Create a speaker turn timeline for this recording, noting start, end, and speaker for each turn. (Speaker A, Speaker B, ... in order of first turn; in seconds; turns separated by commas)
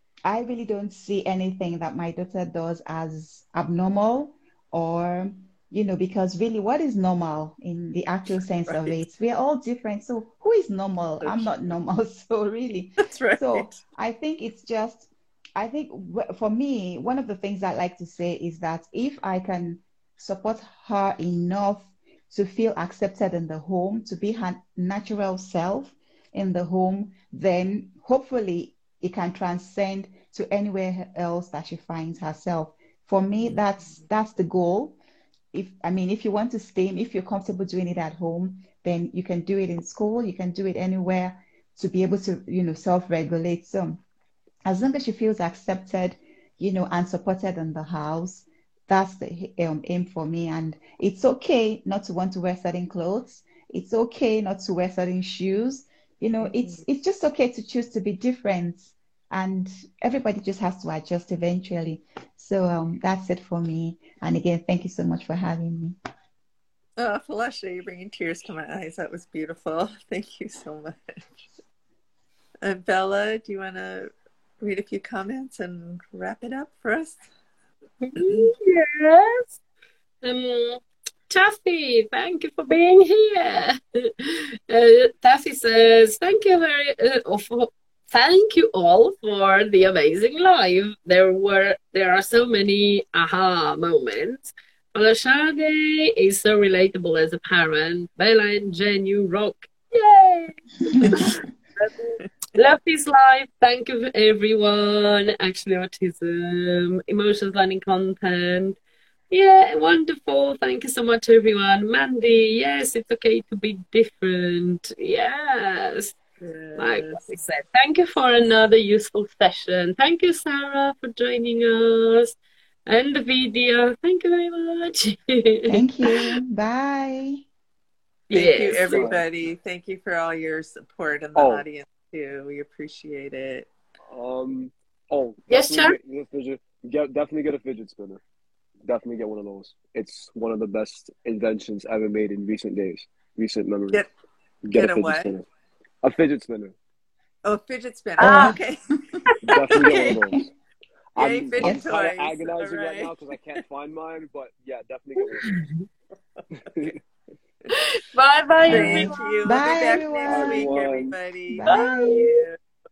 Speaker A: 0.2-35.0, Speaker B: 8.7-8.9, Speaker B: 11.2-11.8, Speaker B: 13.0-13.8, Speaker A: 35.5-44.0, Speaker A: 44.6-66.0, Speaker B: 56.4-56.8, Speaker B: 67.0-71.5, Speaker B: 72.6-77.3, Speaker C: 78.0-79.5, Speaker B: 78.2-78.5, Speaker C: 80.2-108.8, Speaker A: 101.0-101.4, Speaker B: 101.0-101.3, Speaker C: 109.3-116.2, Speaker B: 116.4-117.3, Speaker C: 116.8-122.3, Speaker C: 122.9-126.3, Speaker A: 125.7-127.4, Speaker C: 128.3-129.1, Speaker B: 128.3-133.7, Speaker D: 128.8-129.2, Speaker D: 131.3-131.6, Speaker D: 134.1-138.2, Speaker C: 135.5-136.0, Speaker D: 138.8-144.0, Speaker D: 144.6-145.4, Speaker B: 144.7-145.3, Speaker D: 146.0-146.7, Speaker B: 147.4-150.1, Speaker A: 148.2-148.6, Speaker C: 148.2-148.5, Speaker D: 149.4-150.5, Speaker A: 150.0-150.4, Speaker D: 151.1-155.6, Speaker B: 151.2-153.1, Speaker A: 151.6-151.9, Speaker C: 155.4-155.8, Speaker D: 156.5-157.0, Speaker C: 157.7-159.4, Speaker A: 158.7-160.7, Speaker B: 158.7-162.6, Speaker D: 160.3-161.1, Speaker A: 161.5-162.3, Speaker C: 161.7-162.3